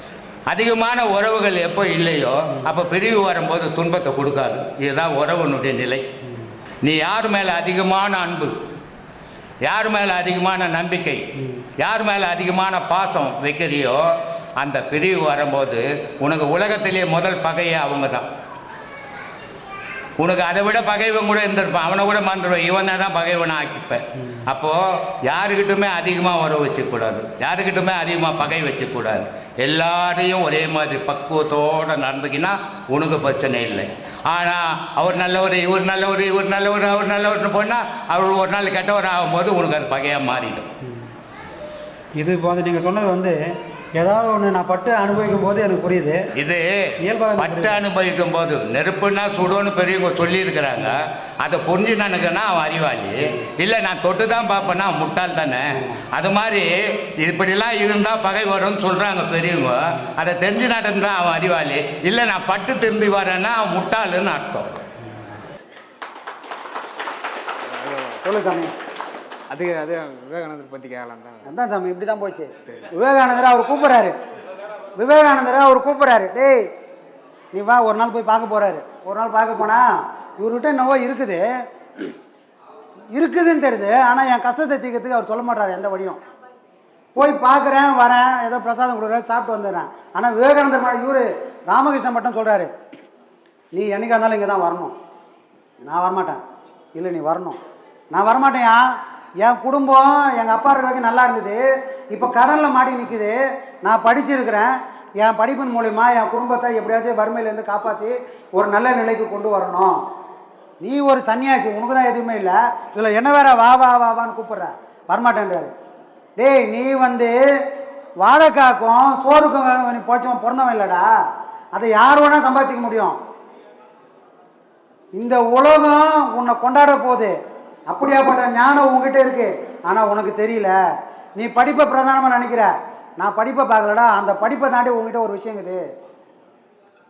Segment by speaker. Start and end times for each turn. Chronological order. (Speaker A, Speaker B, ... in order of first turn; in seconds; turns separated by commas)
Speaker A: 0.5-6.0, Speaker A: 6.8-8.5, Speaker A: 9.6-11.2, Speaker A: 11.8-18.3, Speaker A: 20.2-40.7, Speaker B: 42.2-43.4, Speaker B: 44.0-46.2, Speaker A: 46.4-64.7, Speaker B: 47.0-47.8, Speaker C: 67.6-68.2, Speaker B: 68.2-68.7, Speaker C: 69.5-71.5, Speaker B: 71.5-74.2, Speaker B: 74.9-76.6, Speaker B: 77.5-79.9, Speaker B: 80.4-81.4, Speaker B: 83.1-86.2, Speaker B: 87.1-92.7, Speaker B: 93.7-94.9, Speaker B: 95.8-96.4, Speaker B: 96.9-97.6, Speaker B: 98.1-98.9, Speaker B: 99.4-110.0, Speaker B: 110.8-115.7, Speaker B: 116.3-117.3, Speaker B: 118.2-121.1, Speaker B: 121.7-123.2, Speaker B: 125.1-127.3, Speaker B: 127.9-130.7, Speaker B: 131.3-135.8